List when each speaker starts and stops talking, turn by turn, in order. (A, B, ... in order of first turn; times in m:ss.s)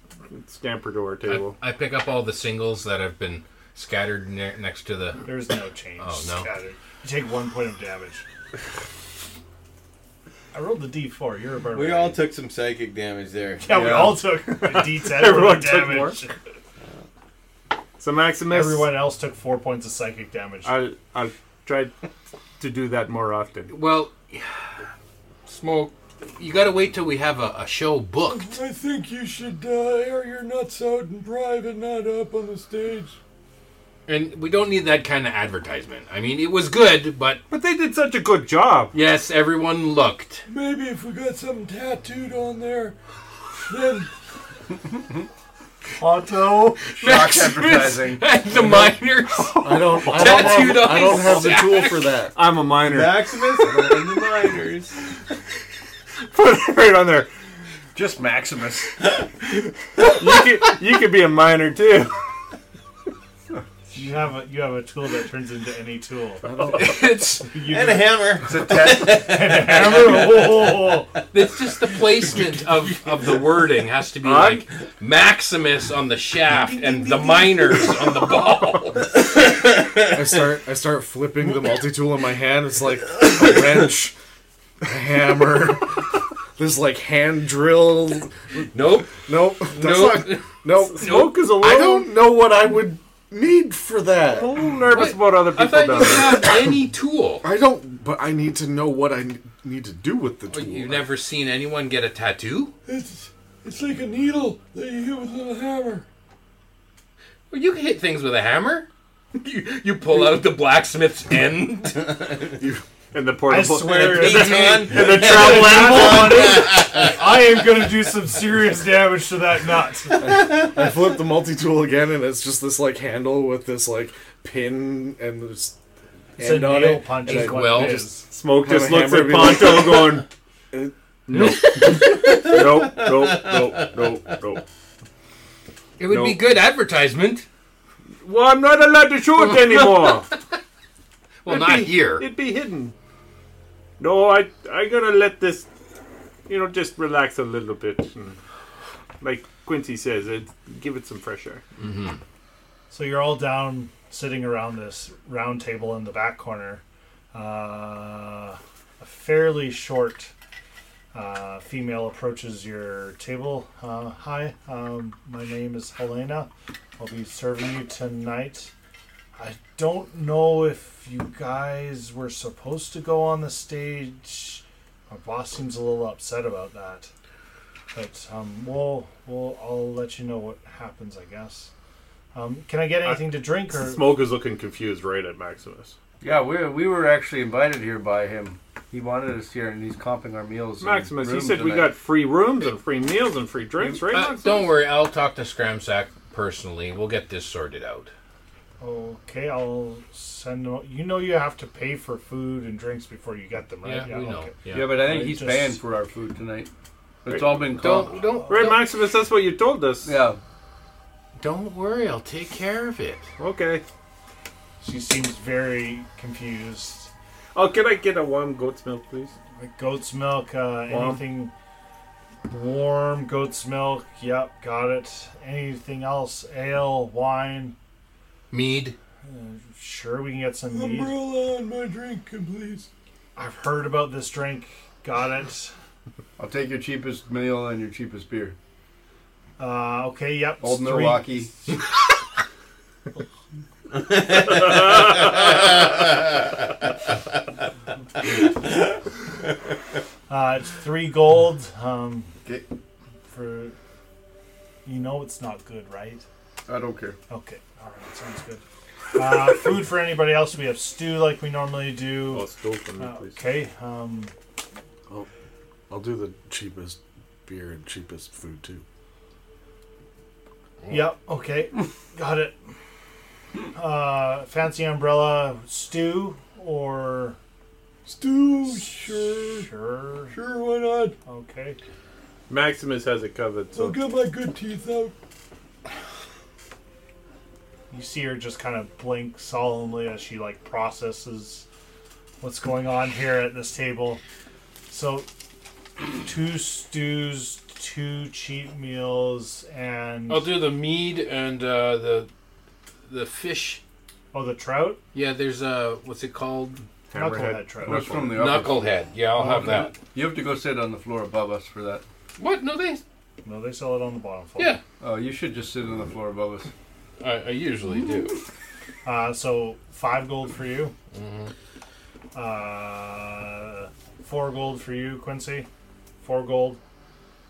0:00.3-0:01.6 A
0:01.3-0:05.4 B
0:05.2-0:08.2 C
0:06.0-0:06.5 B
0:10.5-0:12.2 C
0:11.7-0:13.9 D
0:13.6-0:16.4 C
0:13.7-0:14.3 E
0:14.5-0:16.2 A
0:18.0-0:18.9 A
0:18.5-0:20.7 C
0:20.6-0:21.9 A
0:22.6-0:23.7 A
0:23.7-0:24.5 B
0:25.5-0:28.6 B
0:28.3-0:33.2 F
0:34.1-0:37.4 B
0:37.5-0:39.0 A
0:38.9-0:40.4 B
0:40.5-0:43.0 F
0:43.7-0:44.1 F
0:46.0-0:46.8 C
0:46.9-0:48.3 E
0:47.0-0:52.2 B
0:49.6-0:52.3 G
0:52.4-0:53.4 A
0:52.7-0:55.0 D
0:56.3-0:57.3 A
0:58.0-0:59.0 E
1:00.1-1:02.2 A
1:03.9-1:06.8 C
1:06.7-1:07.4 B
1:07.5-1:08.2 C
1:07.6-1:10.7 D
1:08.5-1:09.1 E
1:08.7-1:11.1 C
1:11.3-1:19.1 B
1:14.2-1:14.6 A
1:16.9-1:17.4 D
1:20.1-1:24.2 G
1:24.8-1:34.6 G
1:28.7-1:31.2 B
1:30.8-1:32.1 A
1:34.3-1:36.5 A
1:34.9-1:37.4 B
1:37.4-1:41.1 G
1:40.5-1:42.7 B
1:42.9-1:46.0 F
1:47.5-1:52.5 B
1:52.6-1:52.8 G
1:53.1-1:56.3 A
1:53.5-2:00.3 C
1:54.1-1:55.3 B
1:54.5-1:57.1 D
2:00.3-2:05.8 G
2:06.4-2:08.0 E
2:06.4-2:08.3 C
2:07.2-2:08.1 B
2:08.2-2:10.3 A
2:08.6-2:10.1 G
2:09.1-2:09.6 E
2:11.3-2:14.6 A
2:11.3-2:12.4 B
2:12.2-2:14.2 D
2:16.0-2:17.5 B
2:16.1-2:16.4 A
2:18.2-2:20.3 A
2:19.4-2:20.6 B
2:21.4-2:22.3 B
2:21.5-2:22.9 A
2:24.0-2:25.7 A
2:26.5-2:28.4 A
2:29.2-2:31.6 A
2:31.8-2:32.2 B
2:32.9-2:40.3 C
2:41.1-2:48.7 C
2:49.4-2:57.1 C
2:57.9-3:01.7 C
3:02.3-3:04.1 C
3:03.0-3:06.0 A
3:06.2-3:12.0 E
3:10.8-3:14.7 A
3:14.1-3:18.1 B
3:18.8-3:25.8 C
3:23.8-3:24.8 B
3:24.7-3:26.7 E
3:27.2-3:28.3 E
3:27.3-3:27.8 A
3:27.7-3:28.9 B
3:28.3-3:28.8 C
3:28.5-3:30.2 A
3:30.0-3:30.4 E
3:31.4-3:33.3 B
3:33.4-3:33.8 A
3:34.8-3:37.1 C
3:37.5-3:39.3 A
3:39.6-3:41.5 C
3:40.9-3:41.2 A
3:42.5-3:47.8 C
3:48.5-3:49.0 B
3:49.2-3:51.2 C
3:50.7-3:52.9 F
3:53.4-3:55.7 C
3:56.4-3:58.6 E
3:59.6-4:01.8 C
4:00.6-4:01.5 E
4:04.3-4:05.6 D
4:10.3-4:12.3 C
4:13.3-4:13.8 C
4:14.8-4:16.2 C
4:16.7-4:17.2 E
4:17.3-4:18.6 C
4:19.1-4:24.3 C
4:22.3-4:23.4 A
4:25.9-4:28.8 G
4:30.9-4:32.6 C
4:33.7-4:37.4 C
4:38.1-4:39.7 F
4:38.6-4:40.4 C
4:40.3-4:41.2 F
4:41.2-4:41.8 C
4:42.5-4:44.0 A
4:43.7-4:45.1 F
4:47.9-4:51.7 C
4:52.4-4:54.2 C
4:54.9-4:55.3 C
4:56.1-5:00.5 C
5:00.3-5:02.3 B
5:03.1-5:03.8 B
5:04.3-5:05.0 C
5:05.1-5:06.8 B
5:07.1-5:08.4 A
5:07.1-5:08.2 C
5:07.9-5:12.0 E
5:08.3-5:09.9 B
5:09.4-5:09.9 C
5:12.4-5:13.0 B
5:13.4-5:14.8 C
5:15.0-5:16.7 E
5:17.2-5:18.4 B
5:19.0-5:20.9 C
5:21.1-5:21.5 B
5:22.3-5:25.7 C
5:26.2-5:26.8 C